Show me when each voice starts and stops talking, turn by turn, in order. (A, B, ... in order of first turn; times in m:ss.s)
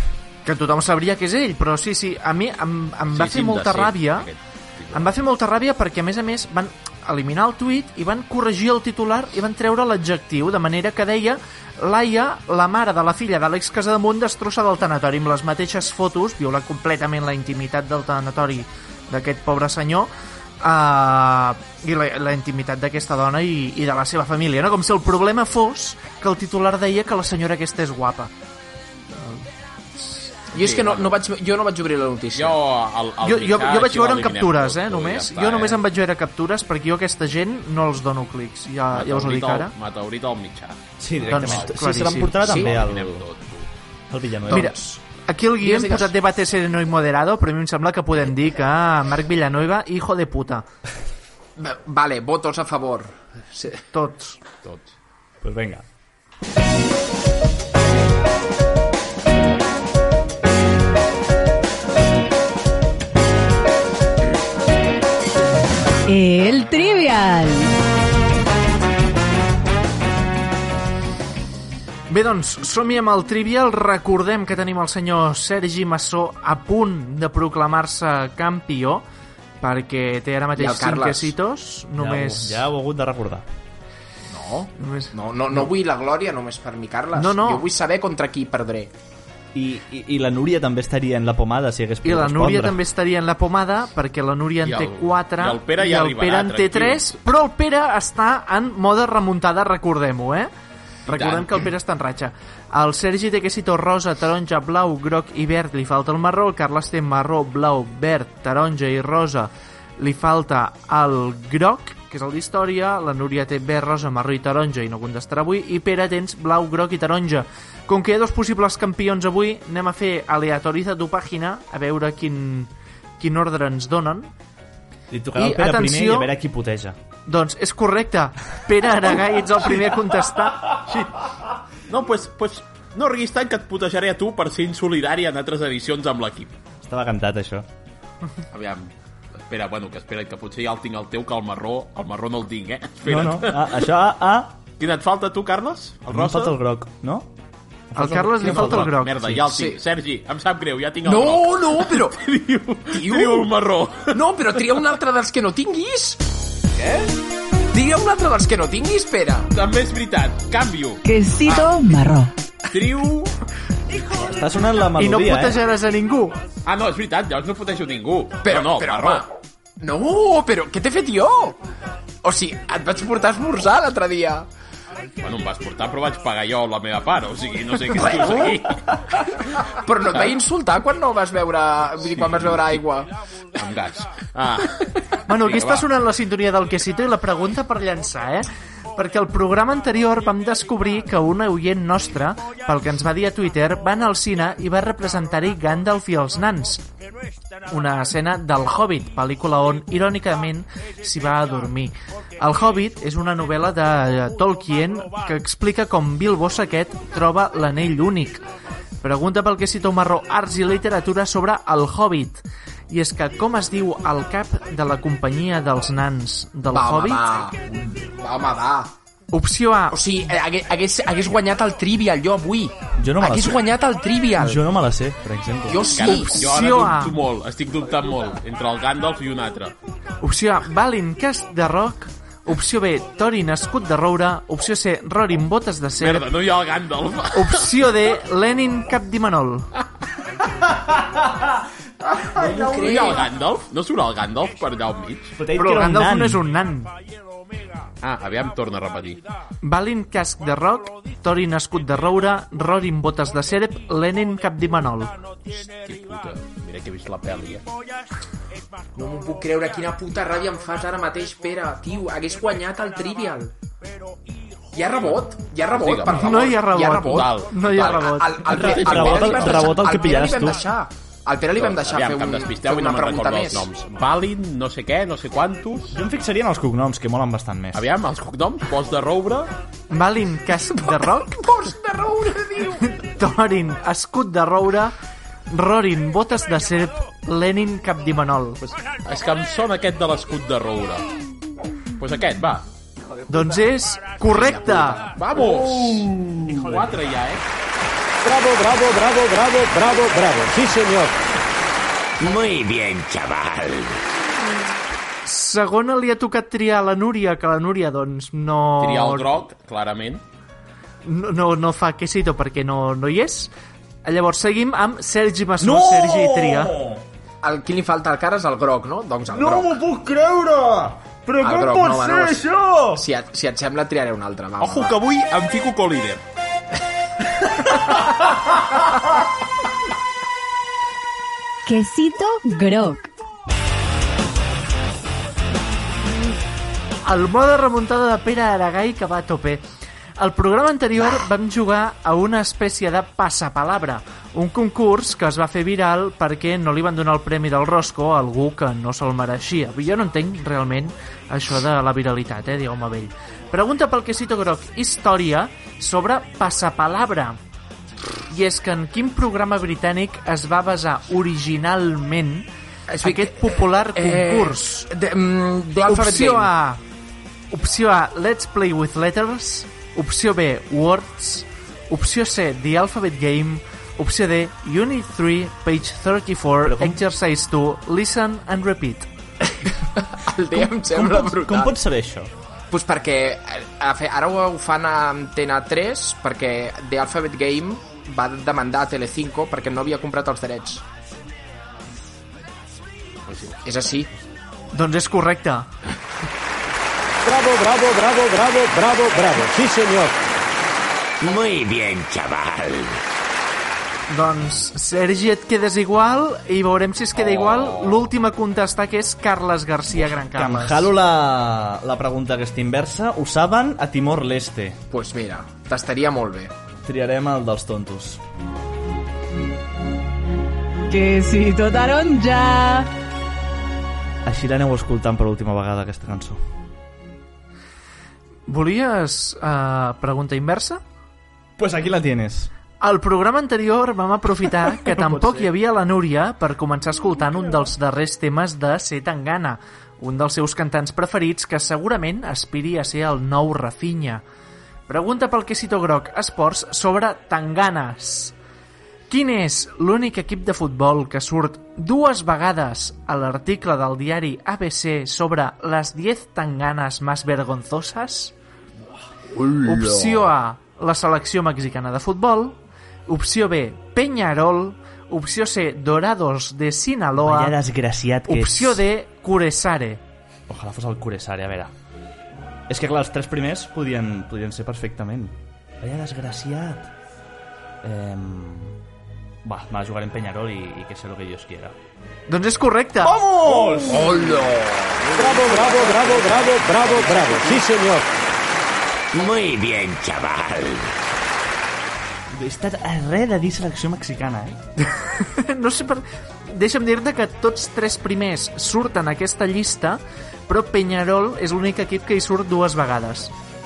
0:00.4-0:04.3 A
0:03.1-0:05.2 B
0:04.9-0:20.1 A
0:20.6-0:28.3 A
0:29.2-0:29.4 A
0:30.0-0:30.2 A
0:30.5-0:32.6 C
0:30.6-0:31.2 B
0:32.3-0:35.8 B
0:33.2-0:39.7 A
0:38.9-0:43.7 B
0:41.0-0:43.3 D
0:41.3-0:42.4 A
0:42.4-0:42.8 C
0:44.1-0:44.7 D
0:44.5-0:50.6 A
0:45.6-0:46.1 C
0:51.6-0:53.8 C
0:53.8-0:54.4 A
0:54.6-0:54.9 B
0:55.4-0:55.8 D
1:06.1-1:07.7 E
1:12.1-1:19.0 A
1:19.6-1:22.6 A
1:20.6-1:21.3 C
1:22.0-1:23.4 D
1:24.3-1:28.9 C
1:24.8-1:25.1 A
1:27.1-1:27.7 A
1:29.5-1:32.8 D
1:32.0-1:40.5 A
1:34.6-1:37.2 B
1:41.1-2:04.3 A
1:41.1-1:41.6 B
2:05.1-2:07.0 D
2:05.4-2:06.3 A
2:07.3-2:10.8 A
2:11.9-2:16.5 B
2:16.8-2:17.6 D
2:18.5-2:23.9 B
2:23.0-2:24.6 D
2:24.8-2:26.6 B
2:26.1-2:27.3 D
2:27.9-2:29.4 D
2:27.9-2:29.2 A
2:28.4-2:34.2 B
2:29.4-2:29.8 C
2:31.0-2:32.2 C
2:32.9-2:33.5 C
2:34.1-2:36.2 C
2:36.8-2:37.1 B
2:37.7-2:39.5 C
2:39.5-2:41.0 B
2:41.0-2:42.3 E
2:42.7-2:43.4 B
2:44.0-2:45.6 D
2:44.9-2:46.4 A
2:46.6-2:49.2 B
2:48.4-2:49.3 C
2:49.8-2:51.6 C
2:52.2-2:54.4 C
2:55.2-2:59.5 B
2:57.9-2:58.7 C
2:59.7-3:03.1 C
3:02.1-3:02.8 B
3:03.5-3:05.9 B
3:05.3-3:16.8 A
3:17.7-3:28.4 A
3:29.0-3:37.2 A
3:36.7-3:38.9 C
3:39.3-3:40.0 A
3:39.9-3:44.6 C
3:43.0-3:43.8 D
3:44.4-3:46.0 D
3:45.6-3:46.5 C
3:45.9-3:49.7 B
3:46.0-3:47.2 A
3:50.2-3:56.3 A
3:56.0-3:57.9 B
3:57.3-3:59.7 A
4:00.7-4:03.2 D
4:02.3-4:03.3 C
4:02.8-4:05.4 B
4:05.4-4:06.4 D
4:05.5-4:06.9 A
4:08.0-4:09.2 B
4:09.6-4:15.1 A
4:15.5-4:17.6 B
4:18.9-4:23.5 C
4:24.7-4:33.7 C
4:25.7-4:29.8 B
4:26.2-4:28.5 A
4:28.5-4:30.6 D
4:31.5-4:36.0 B
4:35.9-4:37.8 D
4:37.7-4:39.5 B
4:39.9-4:41.4 A
4:40.8-4:43.0 C
4:42.9-4:44.9 A
4:45.5-4:48.6 A
4:48.6-4:51.1 B
4:52.0-4:52.6 B
4:53.3-4:55.0 A
4:54.2-4:55.4 C
4:55.2-4:57.4 B
4:56.4-4:56.8 D
4:58.2-5:01.1 F
5:02.2-5:04.0 G
5:05.2-5:09.3 A
5:08.8-5:10.2 B
5:11.0-5:13.5 A
5:14.0-5:16.7 A
5:15.6-5:17.0 D
5:17.4-5:19.8 C
5:19.3-5:23.0 D
5:21.4-5:25.0 C
5:24.6-5:26.2 B
5:31.6-5:33.1 E
5:37.0-5:39.6 A
5:40.2-5:57.4 A
5:58.3-6:02.5 A
6:02.9-6:06.5 C
6:03.0-6:04.9 A
6:05.8-6:06.8 A
6:07.5-6:19.1 A
6:16.6-6:17.0 D
6:20.0-6:21.8 C
6:20.5-6:22.3 D
6:22.7-6:30.8 C
6:33.3-6:33.6 B
6:33.6-6:34.1 C
6:34.7-6:35.7 A
6:37.2-6:40.2 F
6:41.2-6:43.0 G
6:44.1-6:50.9 A
6:47.2-6:48.1 B
6:49.9-6:54.8 D
6:54.9-6:56.5 C
6:56.8-6:58.2 D
7:00.9-7:02.9 E
7:04.2-7:06.4 D
7:08.5-7:10.8 A
7:11.6-7:12.5 D
7:12.8-7:24.2 A
7:14.8-7:15.5 D
7:24.9-7:28.3 A
7:29.1-7:38.3 A
7:39.3-7:40.2 C
7:39.6-7:47.5 A
7:47.2-7:48.8 D
7:48.3-7:50.0 A
7:50.5-7:51.7 D
7:52.7-7:56.9 D
7:57.8-7:58.8 D
7:59.4-8:01.8 D
8:02.3-8:03.1 A
8:03.0-8:04.3 D
8:03.5-8:04.2 B
8:03.6-8:06.0 C
8:05.2-8:08.2 F
8:06.4-8:07.5 D
8:09.1-8:11.0 G
8:12.3-8:14.6 D
8:14.8-8:23.3 A